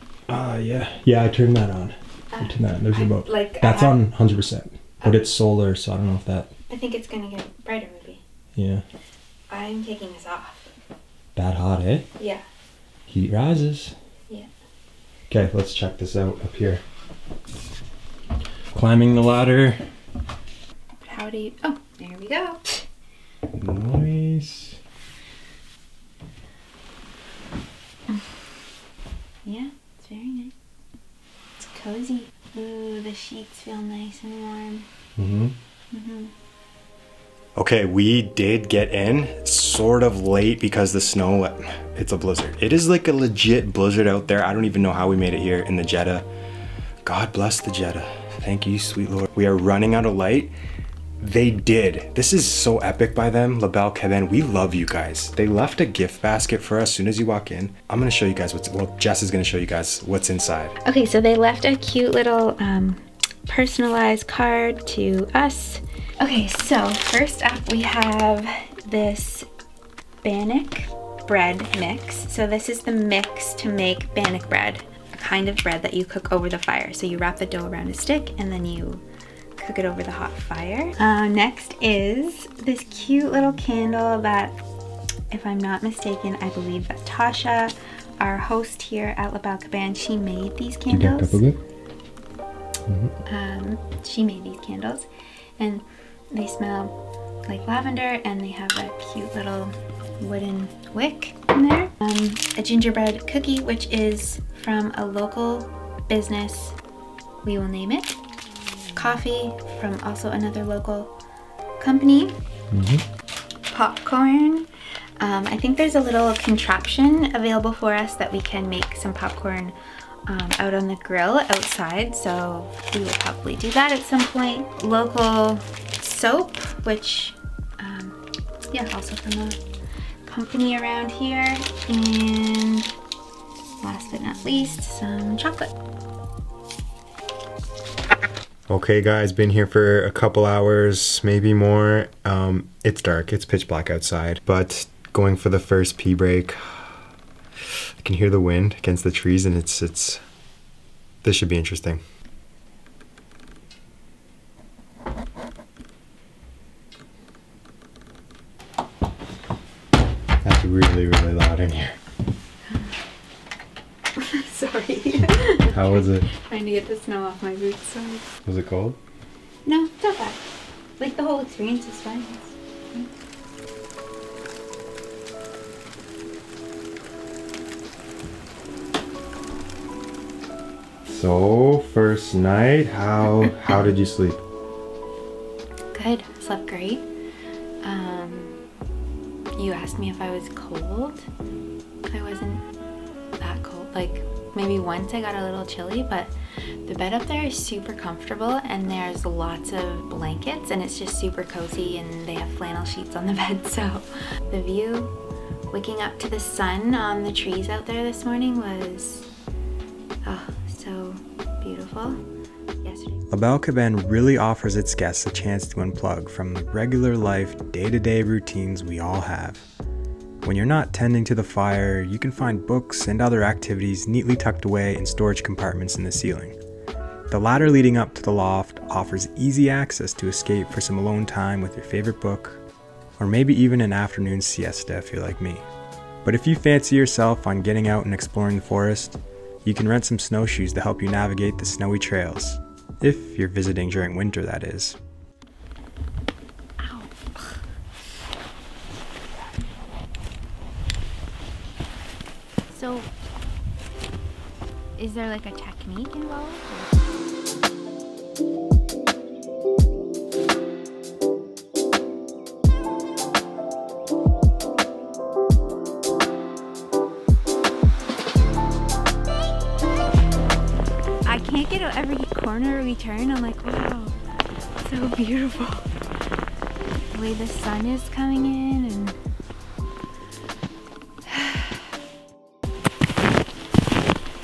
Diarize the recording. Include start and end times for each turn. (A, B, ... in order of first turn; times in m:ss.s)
0:00.3-0:06.5 A
0:02.3-0:04.0 B
0:05.0-0:05.3 B
0:06.7-0:08.2 B
0:08.5-0:08.8 A
0:09.5-0:10.7 B
0:11.4-0:12.1 A
0:12.2-0:12.4 B
0:13.1-0:13.9 A
0:15.3-0:16.8 A
0:18.7-0:19.8 A
0:21.0-0:22.8 B
0:23.5-0:24.8 A
0:29.4-0:30.5 B
0:31.6-0:34.9 B
0:35.2-0:35.5 A
0:35.9-0:36.3 B
0:37.6-0:46.3 A
0:47.0-0:50.5 A
0:51.2-1:00.8 A
1:00.8-1:09.5 B
1:10.2-1:19.0 B
1:19.6-1:24.6 B
1:25.3-1:31.4 B
1:30.9-1:31.6 A
1:32.9-1:33.1 A
1:33.3-1:36.9 B
1:37.4-1:46.8 B
1:47.4-1:48.2 B
1:48.9-1:51.1 B
1:51.8-1:52.3 B
1:52.7-1:53.0 A
1:53.7-1:54.7 B
1:55.2-1:59.8 B
2:00.3-2:09.6 B
2:10.2-2:12.9 B
2:13.8-2:15.7 B
2:18.7-2:26.8 A
2:28.0-2:30.2 A
2:31.2-2:32.0 A
2:40.4-2:42.0 A
2:44.2-2:48.3 B
2:45.7-2:46.3 A
2:48.4-2:49.0 A
2:49.6-2:50.4 B
2:51.0-2:53.1 B
3:01.0-3:04.4 A
3:05.9-3:07.1 B
3:07.8-3:08.6 B
3:09.5-3:11.3 B
3:12.1-3:12.6 B
3:13.4-3:16.3 B
3:16.8-3:25.1 B
3:25.7-3:29.3 B
3:30.2-3:32.2 B
3:32.8-3:33.2 B
3:33.3-3:39.7 A
3:40.4-3:46.6 A
3:47.3-3:52.6 A
3:53.2-3:55.6 A
3:56.2-4:05.0 A
4:06.8-4:07.6 B
4:12.7-4:13.1 B
4:15.0-4:17.1 B
4:31.2-4:34.2 B
4:34.8-4:35.9 B
4:37.1-4:39.2 B
4:41.2-4:41.8 B